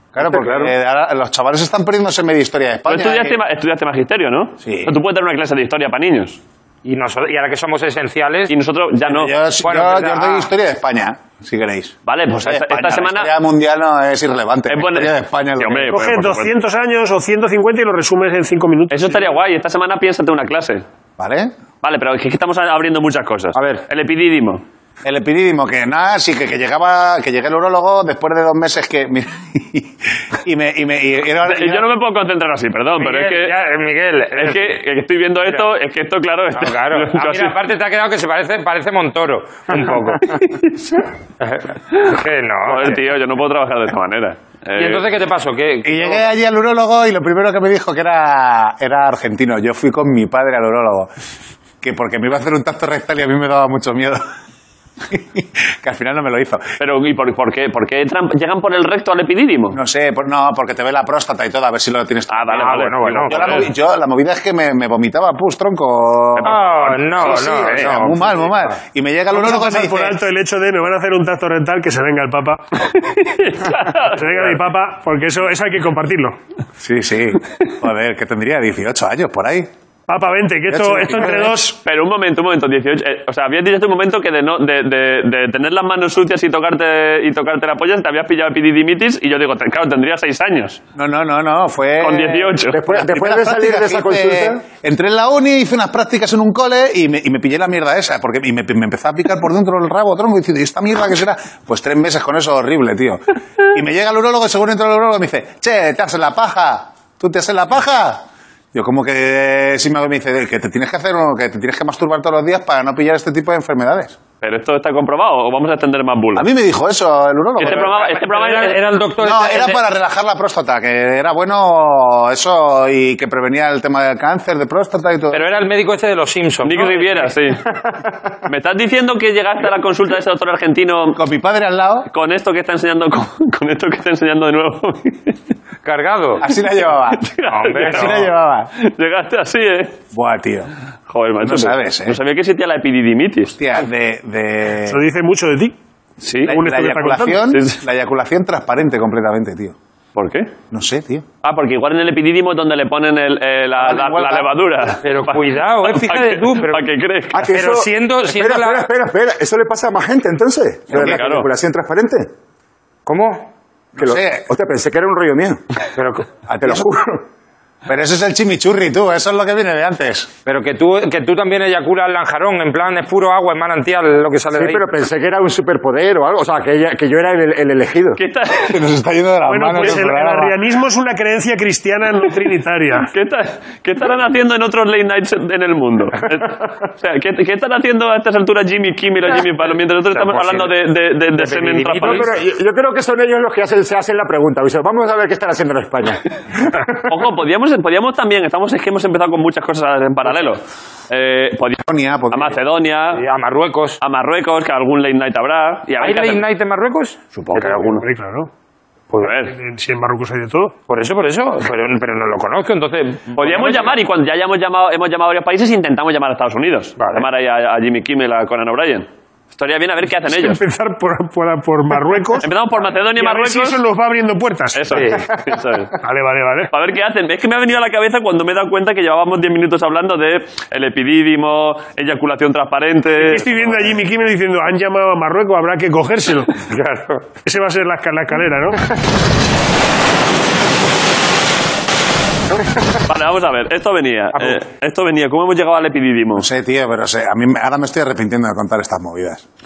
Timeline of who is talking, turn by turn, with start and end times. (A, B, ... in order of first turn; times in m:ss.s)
0:00.1-0:03.4 A
0:00.2-0:00.7 B
0:02.9-0:06.4 C
0:04.6-0:05.0 A
0:06.8-0:08.5 B
0:08.5-0:09.3 C
0:09.1-0:16.4 A
0:09.6-0:10.5 B
0:12.1-0:13.3 C
0:14.7-0:16.5 C
0:15.9-0:19.2 D
0:18.9-0:20.8 C
0:21.2-0:21.5 A
0:21.8-0:24.6 C
0:23.5-0:23.8 B
0:25.0-0:31.9 A
0:31.4-0:33.5 C
0:33.0-0:34.8 B
0:34.4-0:37.6 C
0:36.6-0:40.4 B
0:41.4-0:43.0 B
0:42.7-0:45.1 C
0:44.8-0:46.3 B
0:45.8-0:51.1 A
0:51.8-0:54.2 A
0:55.1-0:56.6 A
0:56.8-0:59.8 C
0:59.7-1:10.2 A
1:02.3-1:03.7 C
1:02.6-1:03.7 B
1:06.4-1:08.0 C
1:06.4-1:08.7 B
1:09.3-1:12.6 D
1:12.9-1:14.5 C
1:14.0-1:16.4 D
1:16.8-1:19.7 A
1:20.1-1:21.8 D
1:20.7-1:21.6 A
1:21.8-1:30.8 C
1:31.0-1:54.2 A
1:32.0-1:32.8 C
1:32.7-1:34.6 E
1:54.4-1:56.5 C
1:56.4-1:58.0 A
1:57.6-1:58.8 C
1:57.6-1:59.8 B
1:59.2-2:05.4 A
2:05.3-2:07.3 B
2:06.6-2:07.6 C
2:08.5-2:11.2 C
2:11.1-2:12.1 A
2:12.1-2:15.4 C
2:15.8-2:16.4 B
2:16.4-2:18.7 A
2:17.1-2:20.0 C
2:17.5-2:18.3 B
2:20.1-2:20.7 A
2:21.1-2:23.6 C
2:21.4-2:22.2 A
2:23.6-2:25.0 A
2:24.8-2:25.8 D
2:26.2-2:26.6 C
2:26.4-2:29.8 A
2:26.5-2:27.4 D
2:27.4-2:27.8 C
2:30.2-2:30.5 C
2:30.7-2:31.2 A
2:31.4-2:37.4 C
2:33.9-2:34.4 E
2:35.0-2:36.8 B
2:37.3-2:42.3 E
2:37.4-2:38.8 B
2:40.9-2:41.2 A
2:40.9-2:41.5 C
2:43.1-2:43.5 B
2:44.0-2:44.5 A
2:44.0-2:45.6 E
2:46.0-2:46.3 B
2:46.5-2:46.9 A
2:46.6-2:47.2 E
2:47.9-2:50.3 A
2:50.5-2:54.8 B
2:54.6-2:58.2 E
2:58.2-2:58.8 C
2:58.6-3:00.6 A
2:59.5-3:03.1 D
3:03.1-3:12.3 C
3:10.1-3:10.7 B
3:11.3-3:12.3 B
3:12.0-3:17.1 E
3:17.1-3:23.2 C
3:21.8-3:22.6 A
3:23.2-3:24.0 B
3:24.0-3:26.4 C
3:26.0-3:28.0 B
3:27.4-3:28.0 C
3:28.0-3:28.5 D
3:29.2-3:29.5 C
3:29.5-3:30.7 D
3:30.9-3:34.0 B
3:33.4-3:40.6 C
3:37.0-3:37.3 B
3:40.3-3:42.5 D
3:42.4-3:43.8 C
3:43.1-3:45.0 D
3:44.7-3:46.0 C
3:44.9-3:45.3 B
3:46.0-3:46.7 D
3:46.7-3:53.8 C
3:53.2-3:56.5 D
3:56.7-3:57.3 B
3:57.4-3:58.8 D
4:03.1-4:06.5 C
4:06.4-4:09.4 A